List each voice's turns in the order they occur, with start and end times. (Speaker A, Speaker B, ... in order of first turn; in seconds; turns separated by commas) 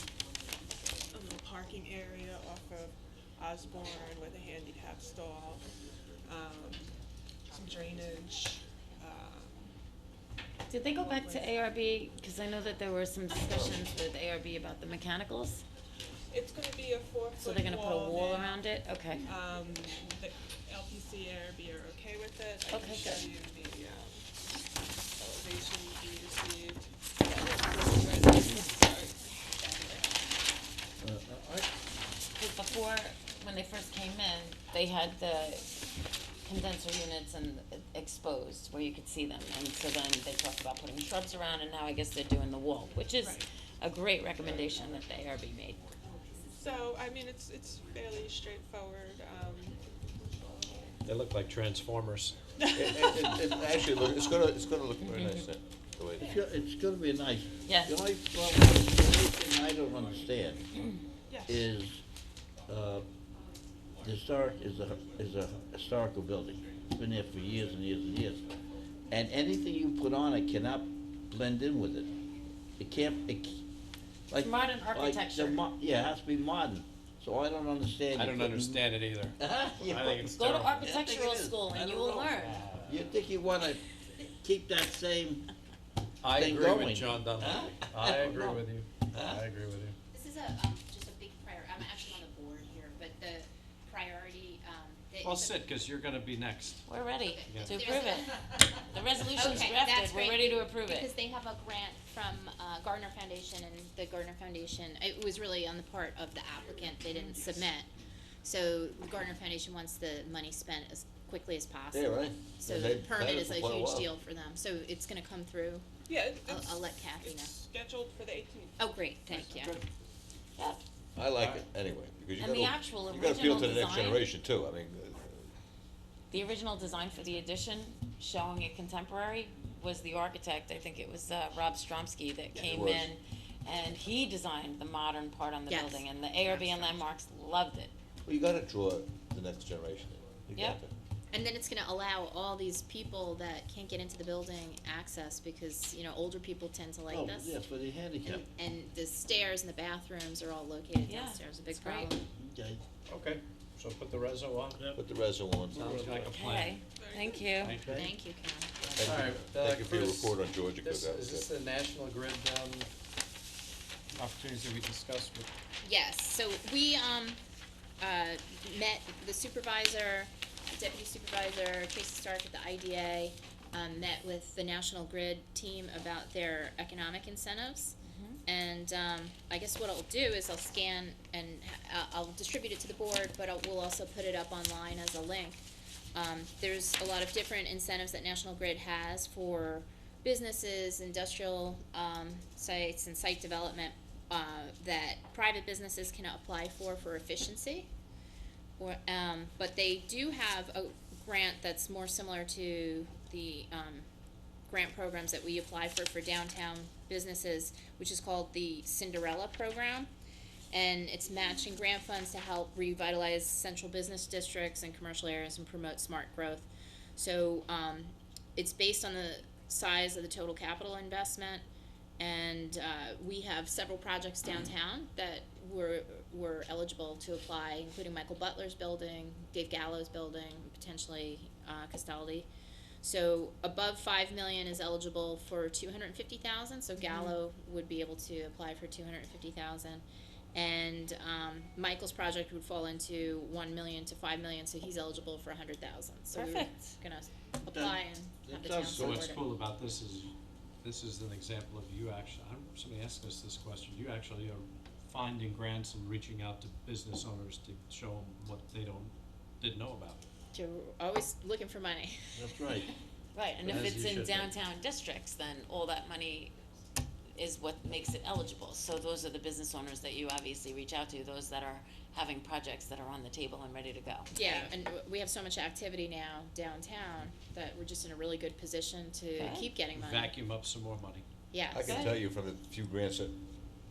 Speaker A: 1.1-5.6, Speaker A: 6.2-7.0, Speaker A: 7.5-9.7, Speaker B: 10.7-15.7, Speaker A: 10.8-11.6, Speaker A: 16.3-18.7, Speaker B: 17.4-19.3, Speaker A: 19.2-24.3, Speaker B: 22.7-23.2, Speaker A: 25.2-30.1, Speaker C: 31.0-31.7, Speaker B: 32.4-35.7, Speaker B: 36.4-45.8, Speaker A: 46.5-49.8, Speaker D: 51.0-52.4, Speaker E: 52.8-56.3, Speaker C: 52.8-53.2, Speaker B: 55.0-55.5, Speaker C: 56.2-60.7, Speaker B: 57.7-58.0, Speaker B: 60.8-61.0, Speaker A: 61.3-61.7, Speaker C: 61.5-62.0, Speaker C: 62.7-63.1, Speaker C: 64.0-68.4, Speaker C: 69.1-72.1, Speaker C: 72.8-73.6, Speaker C: 74.3-78.8, Speaker B: 74.4-75.6, Speaker D: 78.2-80.9, Speaker C: 79.4-85.5, Speaker B: 80.3-82.7, Speaker D: 82.5-83.0, Speaker D: 86.2-90.0, Speaker C: 86.3-88.6, Speaker C: 89.1-89.4, Speaker F: 90.1-95.7, Speaker D: 95.2-96.9, Speaker B: 96.9-101.1, Speaker F: 97.2-98.8, Speaker D: 97.5-97.9, Speaker F: 99.3-107.9, Speaker F: 108.4-117.5, Speaker E: 111.9-114.1, Speaker A: 116.0-118.8, Speaker F: 118.8-119.8, Speaker D: 119.3-119.8, Speaker B: 120.6-120.8, Speaker E: 121.2-125.4, Speaker B: 122.4-124.3, Speaker B: 126.3-137.9, Speaker E: 132.6-133.1, Speaker F: 135.7-136.1, Speaker E: 138.3-140.9, Speaker B: 140.6-140.8, Speaker F: 141.3-147.6, Speaker C: 147.1-148.5, Speaker F: 148.2-152.2, Speaker B: 151.1-152.1, Speaker C: 152.3-152.8, Speaker D: 153.1-155.0, Speaker E: 154.9-156.0, Speaker D: 155.7-156.8, Speaker B: 156.3-157.8, Speaker A: 157.0-157.5, Speaker D: 157.6-158.1, Speaker F: 157.9-158.7, Speaker E: 158.9-161.5, Speaker D: 159.0-162.9, Speaker D: 164.1-165.5, Speaker F: 165.8-167.4, Speaker F: 168.0-185.6, Speaker B: 178.0-178.4, Speaker F: 186.2-197.9, Speaker F: 198.8-204.1, Speaker F: 204.7-210.1, Speaker F: 210.7-221.6, Speaker F: 222.2-232.5, Speaker F: 233.0-249.5, Speaker B: 237.0-237.3, Speaker B: 246.3-246.9, Speaker C: 247.6-249.3, Speaker D: 248.9-260.2, Speaker F: 260.5-262.9, Speaker C: 262.4-262.9, Speaker B: 263.4-266.5, Speaker D: 263.6-264.5, Speaker B: 267.4-274.7, Speaker F: 274.3-280.3, Speaker B: 279.4-279.7, Speaker D: 279.9-281.3, Speaker F: 281.5-282.1, Speaker E: 281.7-283.4, Speaker B: 281.8-282.2